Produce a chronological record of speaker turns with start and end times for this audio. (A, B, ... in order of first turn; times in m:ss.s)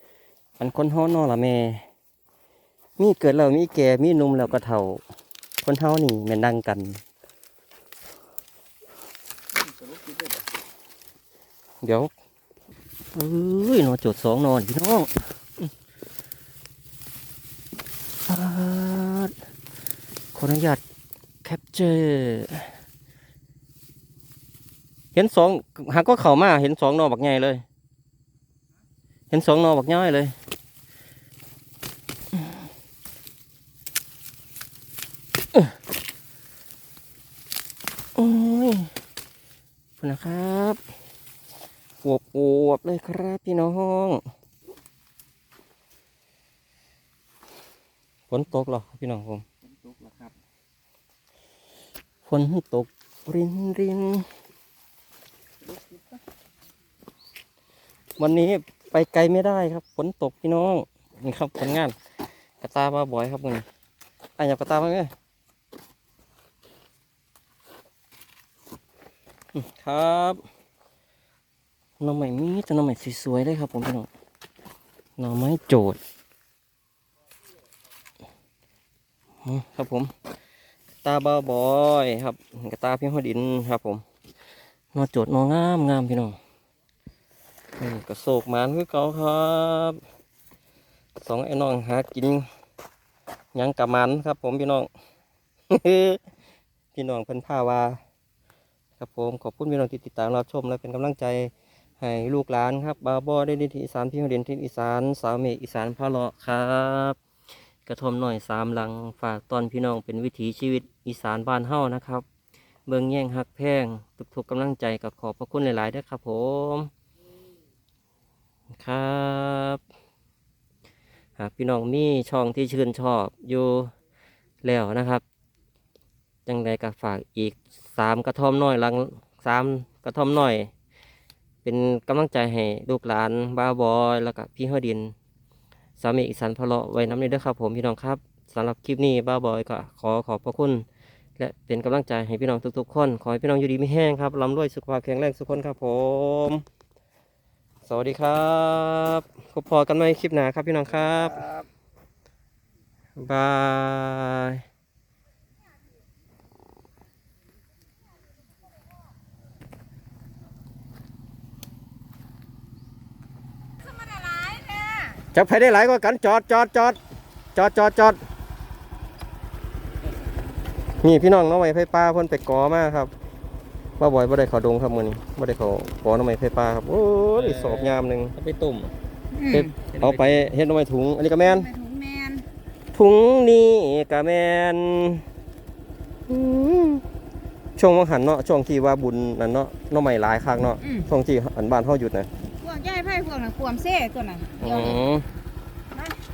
0:00.6-0:01.8 A
0:03.0-0:05.0 A
0:05.6-0:07.0 A
0:09.5-0:10.4 B
0:11.8-0:12.1 A
0:13.1-0:15.6 A
0:18.3-0:19.3 A
0:20.3-0:20.8 A
0:21.4-0:22.7 A
0:25.1-0:27.6 A
0:29.3-0:30.3 A
0:38.2-0:38.9 A
0:40.0-0:40.8 A
0:42.0-0:44.2 A
0:48.3-0:49.4 A
0:49.6-0:50.3 B
0:52.3-0:54.3 A
0:55.6-0:56.2 B
0:58.2-1:02.0 A
1:02.6-1:03.6 A
1:04.4-1:05.1 A
1:09.5-1:10.4 A
1:12.0-1:14.1 A
1:15.2-1:16.0 A
1:19.4-1:20.1 A
1:21.0-1:24.0 A
1:24.9-1:26.4 A
1:27.8-1:30.0 A
1:31.2-1:32.5 A
1:33.5-1:34.9 A
1:35.7-1:36.2 A
1:36.9-1:38.0 A
1:39.0-1:47.2 A
1:47.8-1:52.2 A
1:52.9-1:56.9 A
1:58.7-1:59.8 A
2:01.4-2:03.9 A
2:04.6-2:05.2 A
2:06.4-2:10.7 A
2:11.6-2:15.1 A
2:16.0-2:20.8 A
2:21.4-2:26.6 A
2:27.8-2:31.5 A
2:31.2-2:31.7 B
2:33.2-2:34.6 A
2:43.8-2:45.2 C
2:45.3-2:47.0 A
2:47.5-2:48.2 A
2:51.0-2:53.1 A
2:54.0-2:58.4 A
2:59.3-2:59.8 C
2:59.5-3:01.7 A
2:59.9-3:00.5 B
3:01.4-3:02.4 C
3:02.9-3:05.2 A
3:06.3-3:07.0 A
3:07.8-3:12.3 A
3:10.8-3:11.1 C
3:12.6-3:15.0 C
3:14.6-3:15.3 A
3:15.9-3:16.2 C